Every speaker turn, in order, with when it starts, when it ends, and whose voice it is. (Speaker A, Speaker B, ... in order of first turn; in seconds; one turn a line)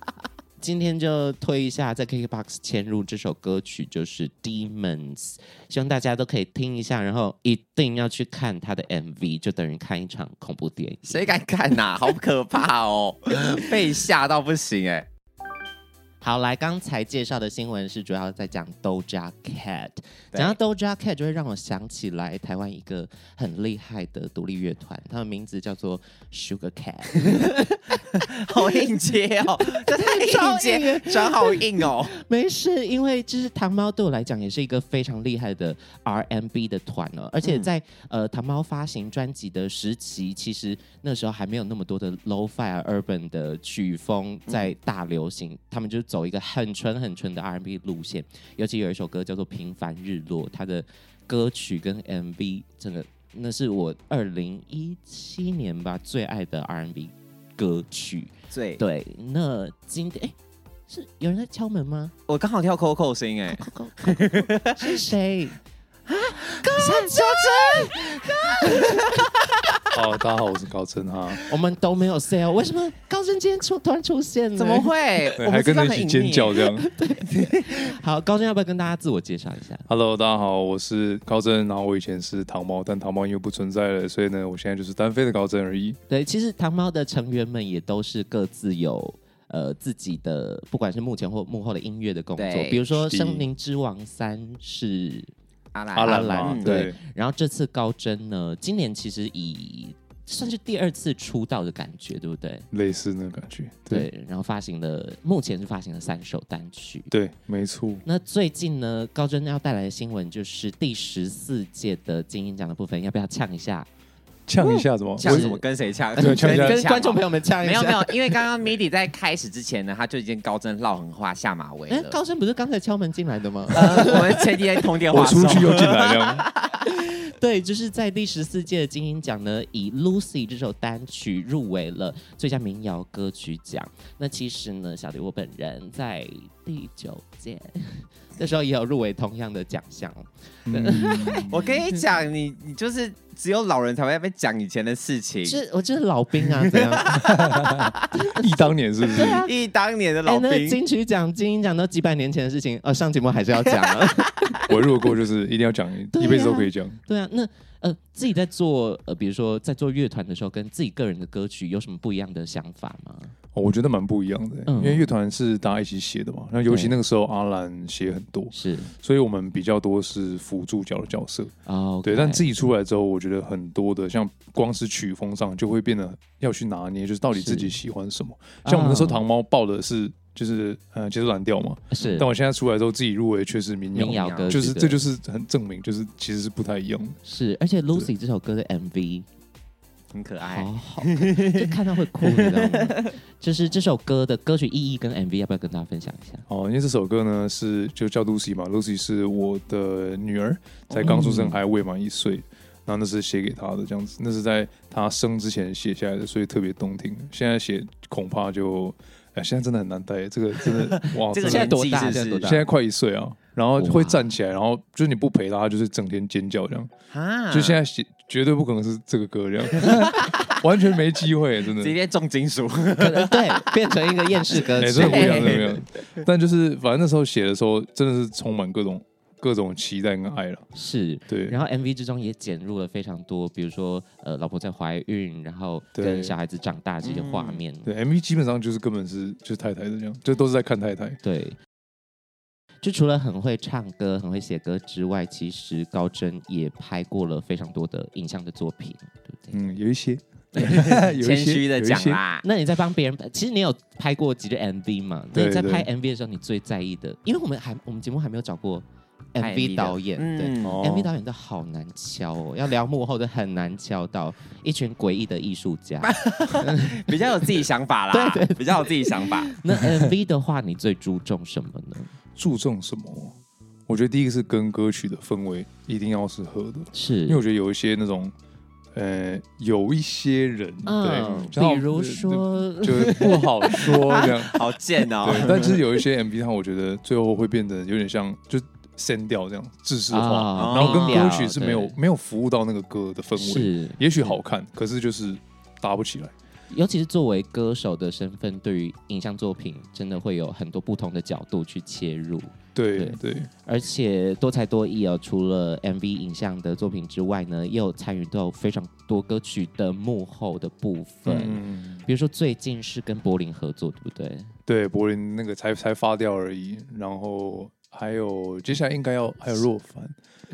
Speaker A: 0.6-11.3
Speaker B: 11.1-15.1
Speaker A: 16.2-28.0
Speaker B: 28.1-32.2
Speaker A: 29.7-60.4
Speaker B: 58.5-58.8
Speaker A: 60.9-62.1
Speaker B: 62.3-65.0
Speaker A: 63.6-65.6
Speaker B: 66.1-69.4
Speaker A: 66.5-69.3
Speaker C: 69.9-71.5
Speaker A: 71.5-75.3
Speaker B: 74.6-77.8
Speaker C: 75.4-76.9
Speaker A: 76.9-79.9
Speaker C: 79.9-86.0
Speaker A: 86.1-95.3
Speaker B: 92.4-92.8
Speaker C: 92.9-93.4
Speaker B: 95.7-96.8
Speaker C: 96.0-97.0
Speaker A: 96.0-102.7
Speaker C: 102.7-104.1
Speaker A: 103.9-107.1
Speaker C: 107.1-108.0
Speaker A: 108.0-113.9
Speaker C: 114.5-115.5
Speaker B: 114.6-122.2
Speaker A: 115.2-115.6
Speaker A: 116.2-118.3
Speaker C: 116.2-116.8
Speaker A: 121.9-124.8
Speaker B: 123.7-126.8
Speaker C: 125.1-126.5
Speaker A: 126.9-141.6
Speaker C: 140.7-141.5
Speaker B: 141.5-145.6
Speaker A: 145.5-147.2
Speaker B: 146.8-147.9
Speaker C: 147.2-149.4
Speaker A: 148.1-149.5
Speaker B: 149.1-150.8
Speaker A: 150.2-154.6
Speaker B: 153.8-154.6
Speaker C: 154.7-157.0
Speaker A: 156.1-163.3
Speaker C: 163.5-171.5
Speaker A: 164.7-165.1
Speaker A: 166.7-166.9
Speaker A: 168.5-168.9
Speaker A: 171.7-172.5
Speaker C: 172.0-187.2
Speaker A: 177.3-177.8
Speaker A: 178.6-179.2
Speaker A: 181.9-182.3
Speaker A: 183.9-185.1
Speaker B: 184.2-184.5
Speaker A: 187.2-189.3
Speaker B: 190.1-193.1
Speaker A: 190.5-196.5
Speaker C: 196.5-216.9
Speaker B: 200.9-201.2
Speaker A: 201.0-201.6
Speaker B: 210.8-212.5
Speaker A: 211.4-212.7
Speaker A: 213.8-214.3
Speaker B: 217.1-217.8
Speaker C: 217.5-221.9
Speaker B: 219.8-220.0
Speaker B: 221.8-223.7
Speaker A: 223.0-225.7
Speaker B: 224.4-226.0
Speaker C: 224.6-230.7
Speaker A: 230.7-237.9
Speaker C: 231.3-231.6
Speaker C: 236.0-236.3
Speaker B: 237.0-237.6
Speaker C: 237.8-241.2
Speaker A: 241.2-241.6
Speaker A: 242.8-249.6
Speaker C: 249.5-252.2
Speaker B: 250.6-252.4
Speaker A: 252.4-267.2
Speaker C: 255.3-255.9
Speaker B: 259.4-260.8
Speaker C: 260.6-261.1
Speaker B: 266.0-269.5
Speaker A: 268.1-272.1
Speaker C: 272.4-273.3
Speaker C: 273.9-278.3
Speaker A: 276.9-277.4
Speaker C: 278.9-284.6
Speaker A: 280.9-284.6
Speaker B: 284.5-285.8
Speaker C: 285.2-296.3
Speaker A: 290.1-291.9
Speaker B: 290.6-291.4
Speaker A: 293.4-294.3
Speaker A: 296.7-314.5
Speaker C: 302.8-303.5
Speaker C: 311.3-312.1
Speaker C: 314.7-320.1